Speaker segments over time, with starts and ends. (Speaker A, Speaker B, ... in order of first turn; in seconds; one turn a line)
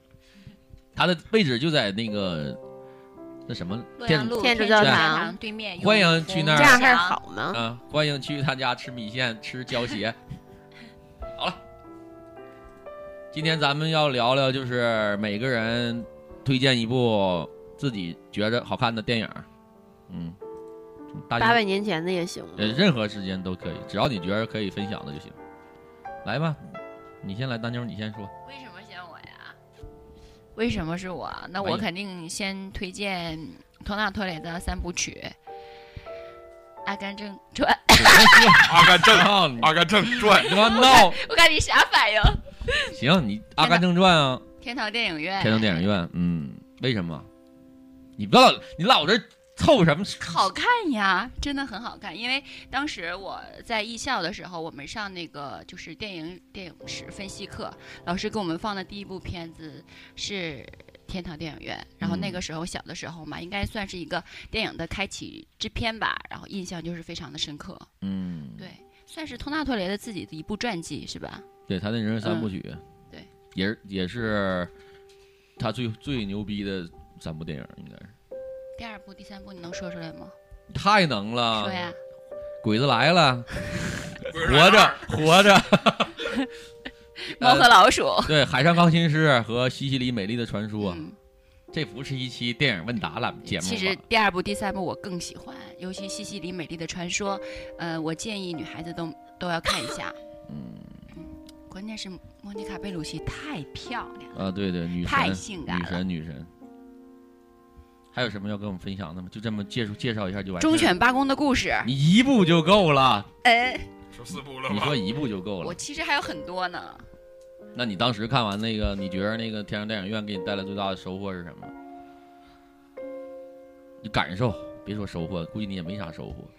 Speaker A: 1.0-2.6
Speaker A: 3.5-5.0
Speaker B: 4.0-7.2
Speaker C: 4.3-5.4
Speaker A: 5.8-6.9
Speaker C: 6.5-7.6
Speaker A: 7.5-10.2
Speaker A: 13.3-19.5
Speaker A: 20.1-20.4
Speaker A: 21.1-21.6
Speaker C: 21.4-22.8
Speaker A: 22.6-25.4
Speaker A: 26.2-28.3
Speaker B: 28.4-29.6
Speaker B: 30.6-35.4
Speaker A: 31.6-31.9
Speaker B: 36.9-38.6
Speaker A: 38.0-41.2
Speaker D: 38.6-40.6
Speaker B: 40.4-42.9
Speaker A: 42.9-44.4
Speaker B: 44.6-45.8
Speaker A: 45.4-47.3
Speaker A: 48.2-50.4
Speaker B: 50.2-67.9
Speaker A: 62.0-62.4
Speaker A: 68.0-68.7
Speaker B: 68.6-71.5
Speaker A: 71.7-72.8
Speaker A: 73.5-74.7
Speaker A: 75.6-78.1
Speaker B: 78.8-80.3
Speaker A: 80.7-81.9
Speaker B: 81.6-82.0
Speaker A: 82.6-86.2
Speaker D: 84.3-85.1
Speaker B: 87.2-88.3
Speaker A: 87.4-91.0
Speaker B: 90.8-91.2
Speaker A: 91.7-94.0
Speaker B: 93.4-100.2
Speaker A: 100.5-101.0
Speaker B: 101.1-104.4
Speaker A: 104.3-106.5
Speaker B: 105.0-106.0
Speaker A: 108.1-110.9
Speaker B: 110.6-111.9
Speaker A: 111.8-113.3
Speaker B: 113.4-113.9
Speaker D: 114.1-115.1
Speaker A: 114.7-115.8
Speaker B: 115.6-117.0
Speaker A: 117.8-121.7
Speaker A: 124.0-126.5